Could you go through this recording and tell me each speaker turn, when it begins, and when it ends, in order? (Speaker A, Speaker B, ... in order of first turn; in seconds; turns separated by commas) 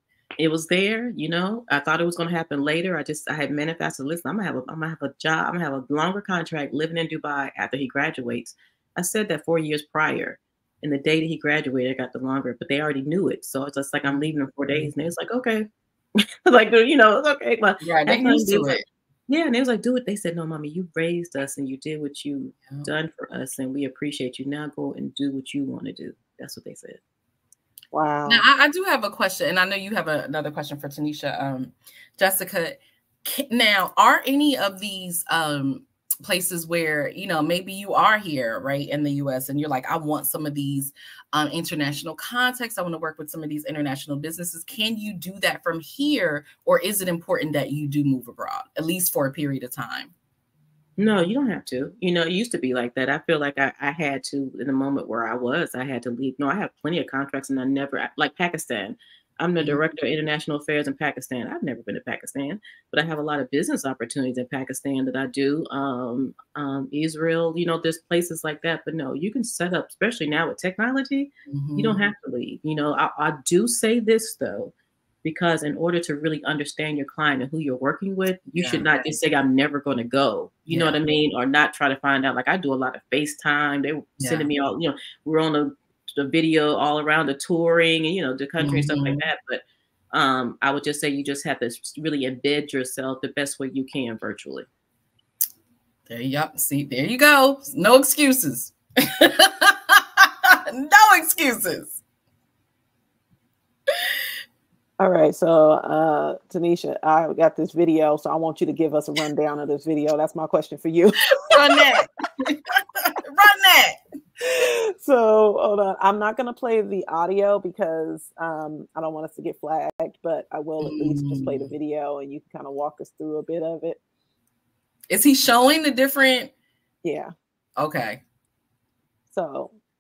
Speaker A: 0.4-15.7, Speaker B: 14.1-14.9, Speaker A: 16.2-27.0, Speaker B: 17.8-18.8, Speaker C: 27.9-28.5, Speaker B: 28.3-50.1, Speaker A: 51.0-94.7, Speaker B: 59.6-59.8, Speaker B: 71.5-72.0, Speaker B: 78.6-79.1, Speaker B: 80.7-81.0, Speaker B: 84.2-84.5, Speaker B: 88.6-89.3, Speaker B: 96.1-102.0, Speaker C: 105.0-112.0, Speaker B: 111.4-114.0, Speaker C: 114.4-124.0, Speaker B: 120.8-121.7, Speaker B: 125.1-126.5, Speaker C: 127.0-127.3, Speaker B: 127.8-128.2, Speaker C: 129.3-129.7